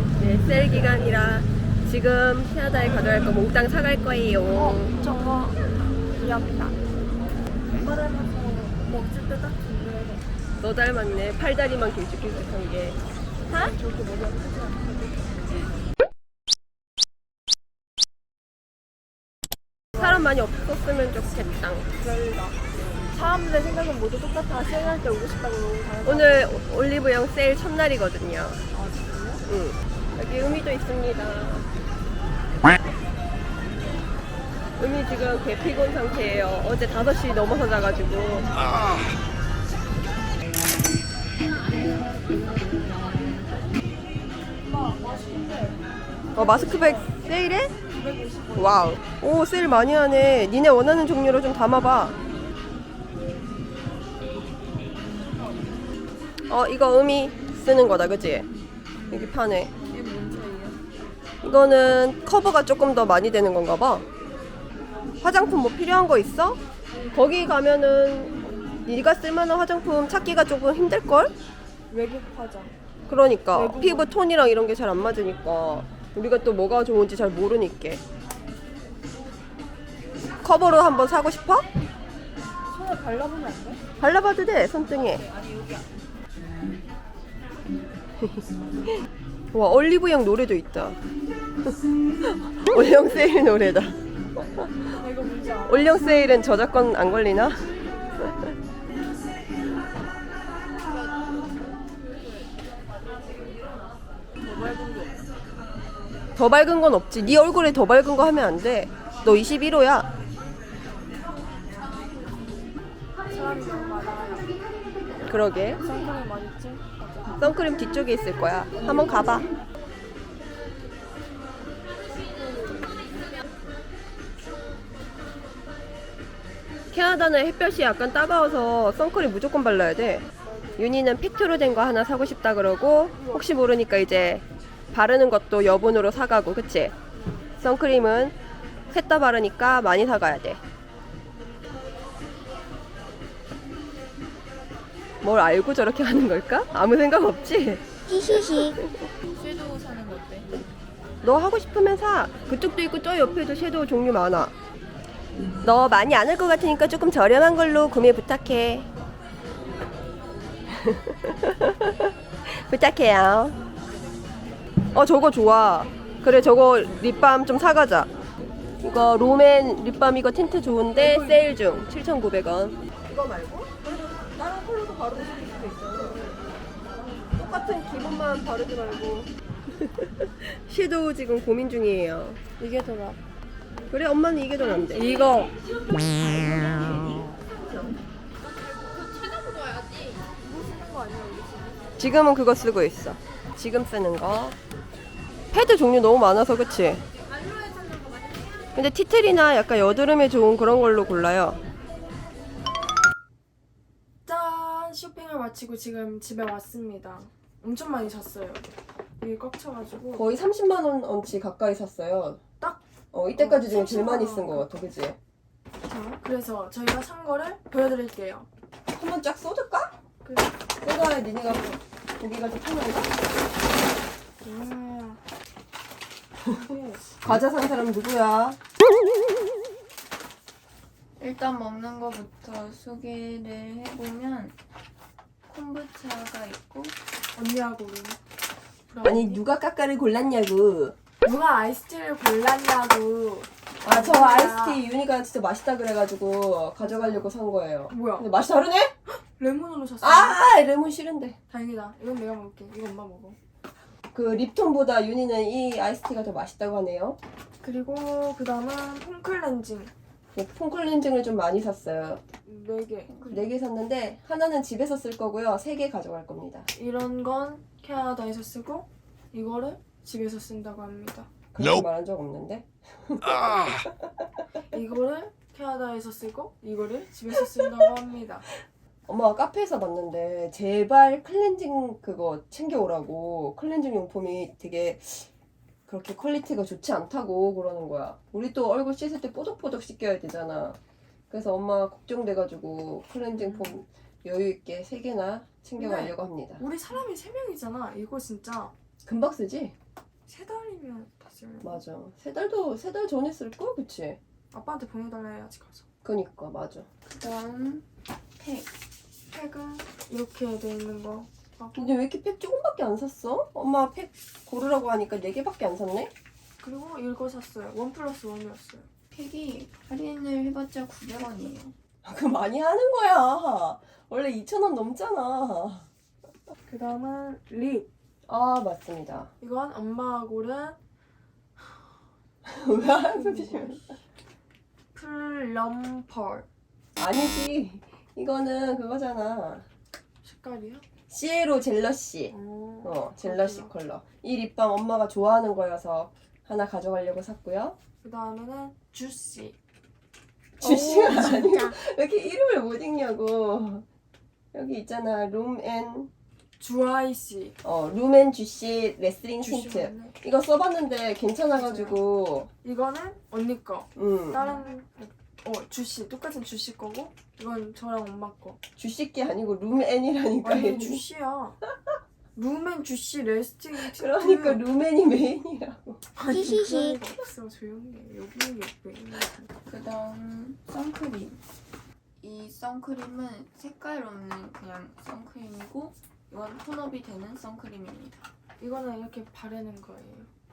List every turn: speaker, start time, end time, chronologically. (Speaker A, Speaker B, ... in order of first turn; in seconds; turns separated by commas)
Speaker A: 0.2-5.0, Speaker B: 4.5-5.6, Speaker B: 6.2-6.8, Speaker B: 7.7-10.2, Speaker A: 10.6-13.7, Speaker B: 13.5-15.3, Speaker A: 20.0-21.9, Speaker B: 22.0-26.6, Speaker A: 26.0-28.6, Speaker B: 28.7-29.4, Speaker A: 29.5-31.7, Speaker A: 34.8-38.6, Speaker B: 44.6-47.2, Speaker A: 46.4-47.7, Speaker B: 47.9-49.0, Speaker A: 48.6-52.2, Speaker A: 56.5-58.5, Speaker C: 58.9-60.8, Speaker A: 59.1-59.7, Speaker A: 61.4-64.1, Speaker A: 65.2-66.6, Speaker A: 67.1-68.3, Speaker A: 68.9-71.3, Speaker B: 71.9-72.7, Speaker A: 73.1-78.0, Speaker B: 73.5-74.1, Speaker A: 80.4-81.7, Speaker B: 82.7-83.8, Speaker A: 84.0-85.3, Speaker A: 88.2-88.5, Speaker A: 89.5-91.0, Speaker A: 92.2-94.9, Speaker B: 95.0-96.5, Speaker A: 95.7-97.7, Speaker A: 98.2-98.5, Speaker B: 104.4-105.2, Speaker A: 106.4-110.1, Speaker B: 113.3-114.5, Speaker A: 115.3-115.8, Speaker B: 115.8-117.5, Speaker A: 117.4-119.5, Speaker B: 122.2-123.1, Speaker A: 126.9-136.9, Speaker B: 130.5-130.8, Speaker B: 133.2-133.4, Speaker A: 137.6-138.4, Speaker A: 138.9-140.6, Speaker A: 145.2-149.1, Speaker C: 148.1-150.6, Speaker A: 151.2-154.5, Speaker A: 155.6-158.9, Speaker A: 160.7-163.6, Speaker A: 164.9-168.1, Speaker A: 168.8-176.3, Speaker B: 170.8-171.8, Speaker A: 177.3-182.4, Speaker B: 182.6-183.2, Speaker A: 183.9-185.4, Speaker B: 184.9-187.2, Speaker B: 190.4-191.9, Speaker A: 192.0-194.6, Speaker A: 195.5-197.0, Speaker A: 198.8-201.6, Speaker B: 204.3-208.7, Speaker B: 209.2-210.3, Speaker A: 210.1-212.4, Speaker A: 213.1-215.2, Speaker B: 213.3-214.7, Speaker B: 215.8-218.5, Speaker A: 218.9-219.9, Speaker B: 220.2-220.5, Speaker A: 220.8-223.2, Speaker B: 224.4-225.2, Speaker B: 226.5-227.0, Speaker A: 227.2-228.6, Speaker C: 231.2-234.6, Speaker C: 235.5-237.0, Speaker B: 237.4-238.2, Speaker B: 238.9-239.4, Speaker A: 239.0-241.0, Speaker B: 241.2-244.8, Speaker A: 243.8-248.9, Speaker B: 246.8-247.3, Speaker B: 247.9-248.3, Speaker B: 249.2-250.4, Speaker A: 250.0-251.4, Speaker B: 251.5-253.4, Speaker A: 254.1-257.2, Speaker B: 257.6-259.9, Speaker A: 260.4-262.2, Speaker B: 262.4-263.2, Speaker C: 263.1-263.5, Speaker A: 263.3-266.7, Speaker B: 266.7-271.3, Speaker A: 271.5-274.1, Speaker B: 274.7-278.5, Speaker A: 279.1-285.3, Speaker A: 285.9-290.8, Speaker A: 291.3-296.6, Speaker B: 295.8-298.7, Speaker A: 299.1-299.8, Speaker B: 300.3-301.8, Speaker A: 301.6-304.2, Speaker B: 304.5-305.9, Speaker A: 306.0-306.9, Speaker C: 307.1-307.9, Speaker C: 308.4-308.7, Speaker B: 309.3-311.9, Speaker A: 311.8-316.1, Speaker B: 316.6-318.9, Speaker C: 319.1-321.7, Speaker A: 322.0-325.9, Speaker B: 326.7-327.9, Speaker A: 328.3-329.3, Speaker B: 329.4-330.8, Speaker A: 332.4-334.0, Speaker B: 333.1-334.0, Speaker B: 334.9-336.5, Speaker A: 337.0-339.7, Speaker B: 340.2-340.8, Speaker A: 341.1-347.8, Speaker B: 342.3-343.7, Speaker B: 348.0-349.6, Speaker A: 350.6-353.9, Speaker A: 354.5-356.1, Speaker B: 356.6-357.6, Speaker A: 357.6-362.5, Speaker B: 359.4-360.2, Speaker B: 361.6-362.0, Speaker B: 362.6-368.6, Speaker A: 364.0-364.6, Speaker A: 368.8-371.1, Speaker B: 370.4-371.6, Speaker B: 372.4-374.6, Speaker A: 373.7-376.0, Speaker B: 376.1-379.5, Speaker C: 376.6-376.9, Speaker C: 379.6-381.4, Speaker C: 382.2-388.2, Speaker B: 388.6-390.3